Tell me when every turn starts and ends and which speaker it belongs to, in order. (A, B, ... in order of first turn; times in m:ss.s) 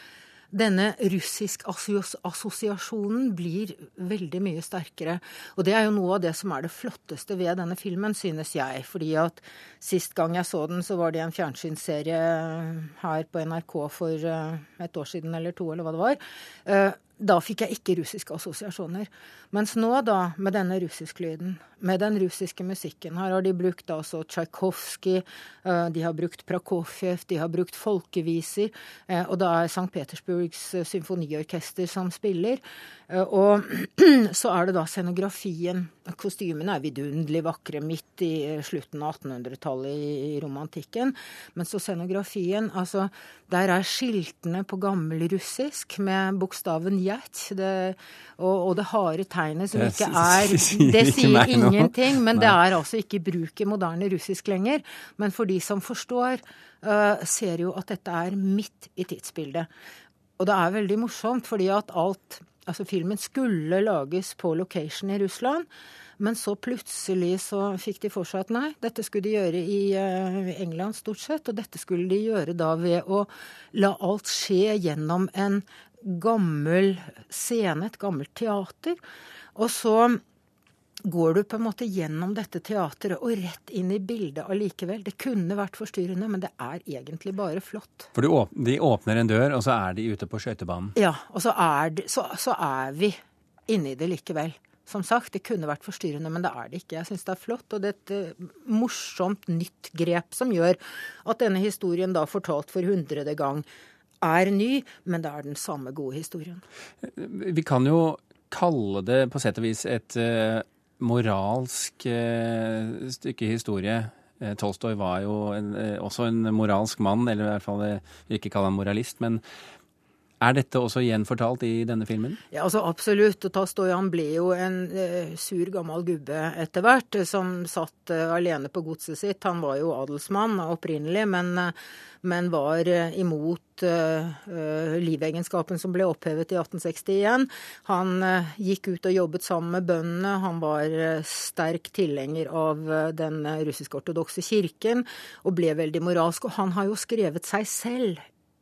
0:00.5-0:59.7 A
0:49.7-0:52.6 B
1:00.4-1:05.7 A
1:06.2-1:19.0 A
1:19.5-1:20.2 A
1:21.0-1:28.1 A
1:28.1-1:30.9 B
1:31.0-1:33.2 A
1:33.7-1:43.6 A
1:44.2-1:46.6 A
1:47.0-1:59.4 B
2:00.4-2:02.4 B
2:02.5-2:28.2 A